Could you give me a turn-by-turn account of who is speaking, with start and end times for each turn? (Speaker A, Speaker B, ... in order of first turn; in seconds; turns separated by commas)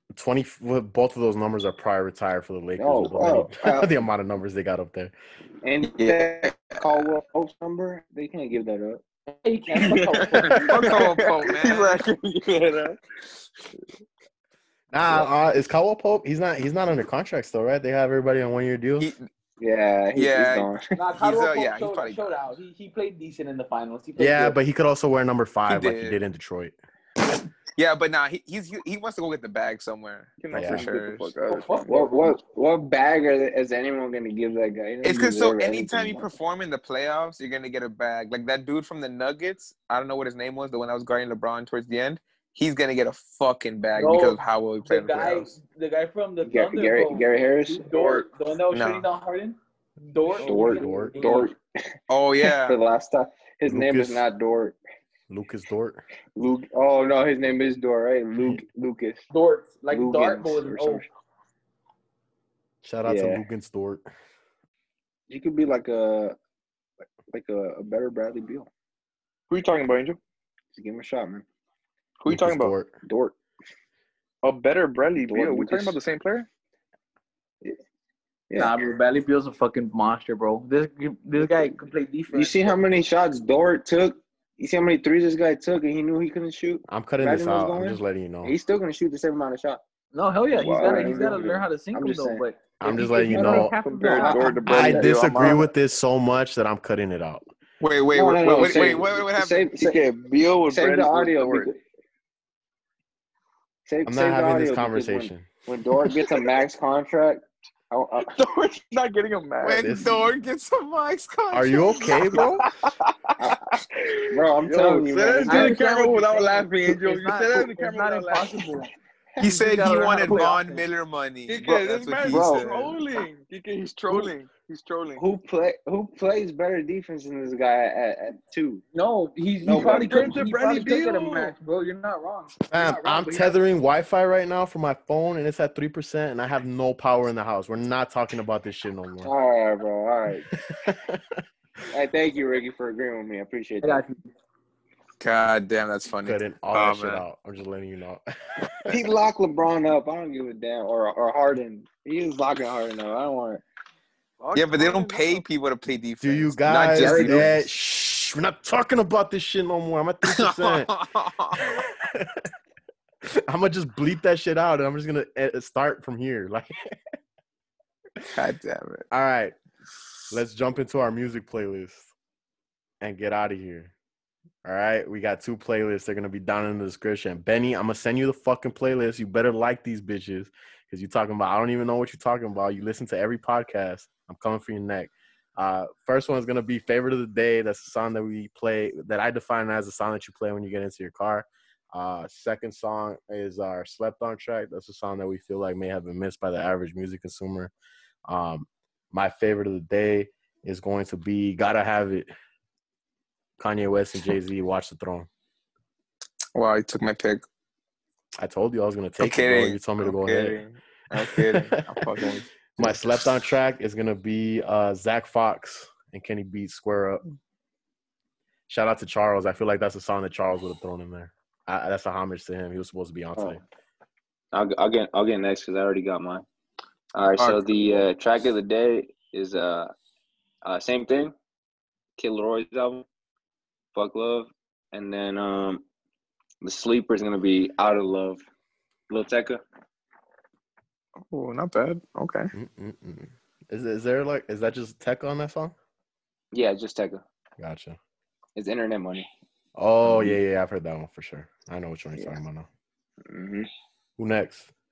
Speaker A: 0.1-5.1, Speaker B: 2.8-4.0, Speaker B: 5.6-9.0, Speaker C: 6.0-7.1, Speaker D: 9.4-10.6, Speaker B: 9.8-13.0, Speaker C: 10.6-11.9, Speaker A: 14.9-19.1, Speaker C: 19.0-19.3, Speaker B: 19.6-20.9, Speaker C: 20.1-22.2, Speaker D: 20.9-24.6, Speaker A: 24.2-26.8, Speaker C: 25.7-26.2, Speaker C: 27.8-31.3, Speaker E: 30.4-32.1, Speaker A: 30.5-30.9, Speaker D: 31.5-32.4, Speaker B: 31.9-36.3, Speaker C: 35.0-45.5, Speaker D: 44.0-51.5, Speaker B: 46.4-48.3, Speaker C: 48.7-49.1, Speaker E: 50.4-50.7, Speaker B: 50.4-51.6, Speaker A: 50.6-51.2, Speaker C: 52.1-52.8, Speaker B: 52.4-54.8, Speaker A: 53.7-54.3, Speaker A: 55.3-56.0, Speaker B: 56.4-59.3, Speaker D: 59.3-61.0, Speaker B: 59.9-61.1, Speaker A: 62.8-64.0, Speaker B: 63.0-63.4, Speaker B: 65.3-66.4, Speaker B: 67.3-68.7, Speaker E: 69.5-70.2, Speaker B: 70.7-71.5, Speaker E: 72.2-72.7, Speaker A: 72.3-72.9, Speaker B: 73.0-73.3, Speaker E: 74.4-76.5, Speaker B: 75.2-76.0, Speaker D: 78.5-82.8, Speaker B: 82.3-89.8, Speaker A: 86.9-88.5, Speaker D: 90.1-95.6, Speaker E: 90.6-91.5, Speaker B: 90.8-94.6, Speaker A: 92.8-93.7, Speaker E: 93.7-95.6, Speaker A: 94.7-97.5, Speaker C: 97.8-99.7, Speaker B: 98.1-100.0, Speaker E: 98.4-99.1, Speaker E: 99.8-101.7, Speaker B: 100.7-101.8, Speaker B: 103.9-108.3, Speaker A: 104.0-105.5, Speaker E: 108.2-110.0, Speaker C: 109.6-112.7, Speaker A: 109.8-110.3, Speaker A: 111.5-112.6, Speaker E: 113.7-118.7, Speaker B: 114.3-115.8, Speaker D: 115.5-120.8, Speaker C: 119.4-122.9, Speaker E: 121.5-125.2, Speaker B: 122.3-123.0, Speaker B: 125.2-128.8, Speaker D: 128.9-133.6, Speaker B: 129.6-130.4, Speaker E: 129.7-131.5, Speaker A: 132.7-139.3, Speaker B: 139.2-140.4, Speaker A: 140.5-141.4, Speaker B: 141.9-144.0, Speaker D: 143.8-144.2, Speaker C: 145.2-147.2, Speaker A: 146.2-148.9, Speaker B: 148.9-153.6, Speaker E: 154.4-155.4, Speaker C: 154.6-157.6, Speaker A: 156.2-160.9, Speaker B: 157.0-157.5, Speaker C: 160.2-161.6, Speaker A: 161.6-162.5, Speaker A: 163.3-166.8, Speaker C: 168.3-169.1, Speaker A: 169.1-169.6, Speaker A: 170.3-172.1, Speaker A: 173.0-173.9, Speaker A: 174.7-197.7, Speaker A: 198.3-202.3, Speaker A: 203.6-205.3, Speaker C: 206.6-207.4, Speaker A: 208.4-210.6, Speaker C: 209.2-213.0, Speaker A: 211.2-212.1, Speaker A: 212.8-217.2, Speaker A: 218.7-223.6, Speaker B: 223.4-223.6, Speaker B: 224.5-226.4, Speaker B: 227.1-229.9, Speaker C: 227.4-227.6, Speaker B: 230.7-231.3, Speaker B: 232.2-233.1, Speaker B: 233.9-235.8, Speaker B: 236.6-238.4, Speaker B: 239.1-239.6, Speaker C: 241.3-242.5, Speaker A: 242.5-245.8, Speaker B: 246.5-247.2, Speaker A: 247.6-248.0, Speaker B: 248.6-249.3, Speaker A: 249.8-252.7, Speaker B: 250.0-250.4, Speaker B: 253.3-253.7, Speaker A: 254.2-254.7